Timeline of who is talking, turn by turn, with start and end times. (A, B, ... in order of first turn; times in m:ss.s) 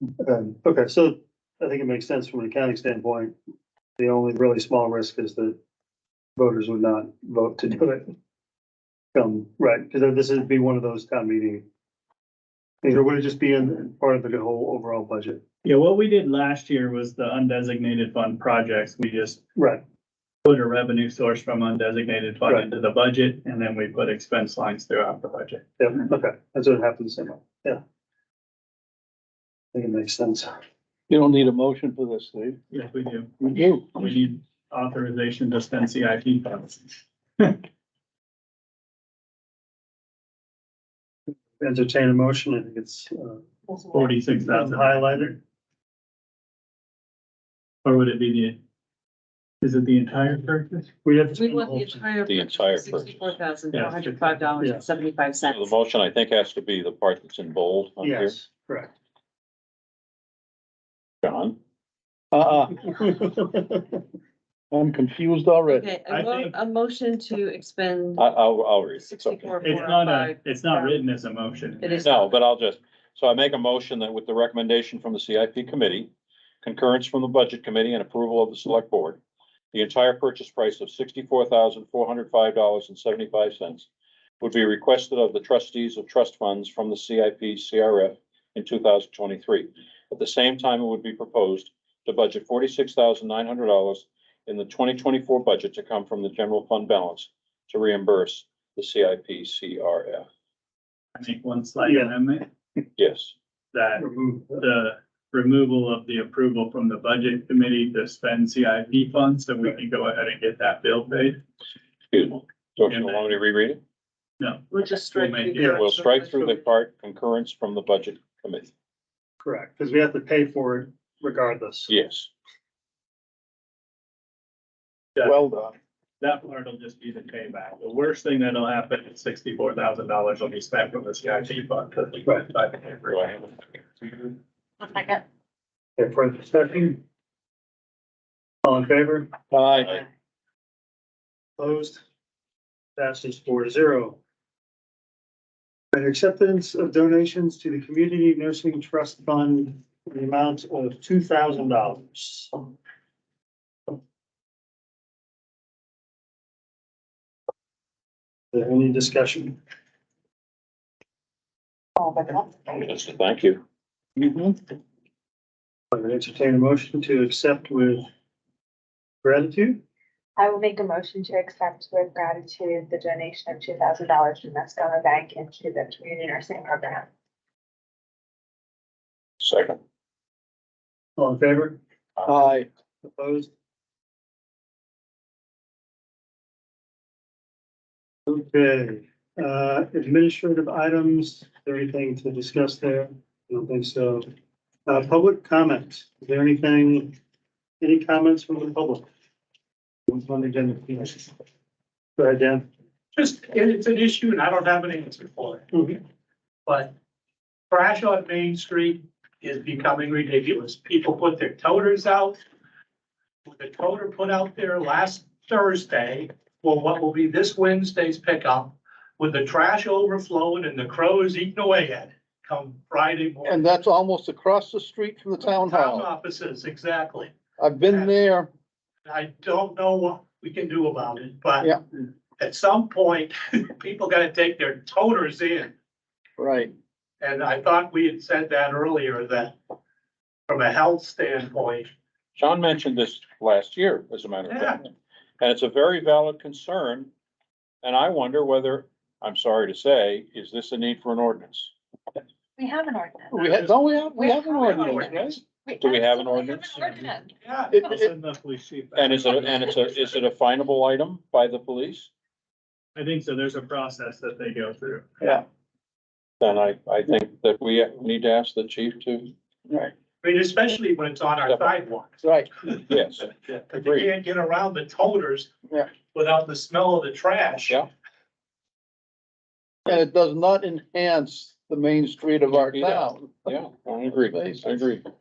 0:00.2-0:03.3 A
0:04.0-0:05.6 A
0:06.4-0:08.1 A
0:09.1-0:11.6 A
0:12.8-0:15.4 A
0:15.6-0:19.4 B
0:19.6-0:19.8 A
0:20.4-0:25.6 B
0:25.8-0:27.8 A
0:29.7-0:30.5 A
0:31.1-0:32.6 C
0:32.7-0:37.6 B
0:33.4-0:33.9 C
0:41.6-0:43.4 A
0:43.9-0:45.4 B
0:44.4-0:45.4 A
0:47.8-0:48.6 B
0:49.6-0:50.9 B
0:51.0-0:52.0 A
0:51.3-0:55.8 D
0:52.2-0:53.4 E
0:53.7-0:54.5 B
0:54.6-0:54.8 A
0:55.4-0:58.4 E
0:58.0-0:58.9 A
1:01.2-1:01.6 E
1:02.3-1:02.8 C
1:02.9-1:04.0 A
1:04.7-1:05.9 C
1:05.7-1:08.2 D
1:06.1-1:06.5 B
1:08.2-1:09.7 E
1:09.0-1:11.0 D
1:09.6-1:12.1 B
1:11.8-1:12.3 D
1:12.0-1:16.1 E
1:16.6-1:19.2 E
1:19.7-1:23.9 E
1:24.4-1:40.3 E
1:41.2-1:42.4 B
1:41.8-1:42.1 A
1:43.0-1:43.3 E
1:43.7-1:51.4 B
1:44.0-1:44.6 A
1:52.1-1:53.8 E
1:52.9-1:53.2 B
1:54.4-1:55.8 B
1:54.7-1:56.6 D
1:55.5-1:55.8 A
1:55.7-1:58.7 E
1:59.4-2:01.9 A
2:01.9-2:02.3 E
2:05.2-2:05.7 C
2:06.2-2:13.2 B
2:13.1-2:13.8 E
2:14.9-2:15.2 F
2:16.0-2:17.0 A
2:18.6-2:19.3 A
2:19.5-2:20.0 C
2:21.6-2:22.0 A
2:23.0-2:24.2 A
2:25.9-2:32.6 A
2:38.5-2:39.6 A
2:42.0-2:42.6 F
2:42.7-2:43.6 E
2:44.2-2:44.5 C
2:45.9-2:48.0 A
2:49.2-2:49.8 A
2:50.4-2:57.1 F
2:59.4-2:59.8 E
3:01.2-3:01.8 A
3:02.2-3:02.4 E
3:02.2-3:02.7 C
3:03.0-3:03.5 A
3:08.3-3:14.3 A
3:14.9-3:17.1 A
3:17.8-3:19.0 A
3:20.1-3:21.3 A
3:22.2-3:22.6 A
3:23.2-3:25.7 G
3:25.7-3:26.0 A
3:26.6-3:26.9 G
3:27.7-3:32.4 G
3:33.4-3:43.7 G
3:43.4-3:46.1 C
3:45.4-3:47.3 G
3:47.6-3:48.5 C
3:49.0-3:55.7 G
3:56.4-3:56.7 C
3:57.2-3:59.6 G
4:00.5-4:01.9 G
4:02.4-4:04.8 E
4:04.5-4:04.8 G
4:05.4-4:07.1 E
4:07.8-4:11.7 E
4:12.6-4:18.1 F
4:13.3-4:15.4 C
4:14.7-4:15.3 G
4:15.8-4:17.2 E
4:17.4-4:17.8 G
4:17.7-4:18.1 C
4:17.8-4:20.1 B
4:18.9-4:22.1 E
4:22.9-4:25.1 B
4:26.4-4:29.3 E
4:30.2-4:35.5 G
4:31.4-4:31.7 E
4:32.2-4:32.5 C
4:32.8-4:34.1 E
4:36.1-4:37.8 G
4:39.9-4:43.5 C
4:42.6-4:45.0 E
4:44.3-4:44.8 C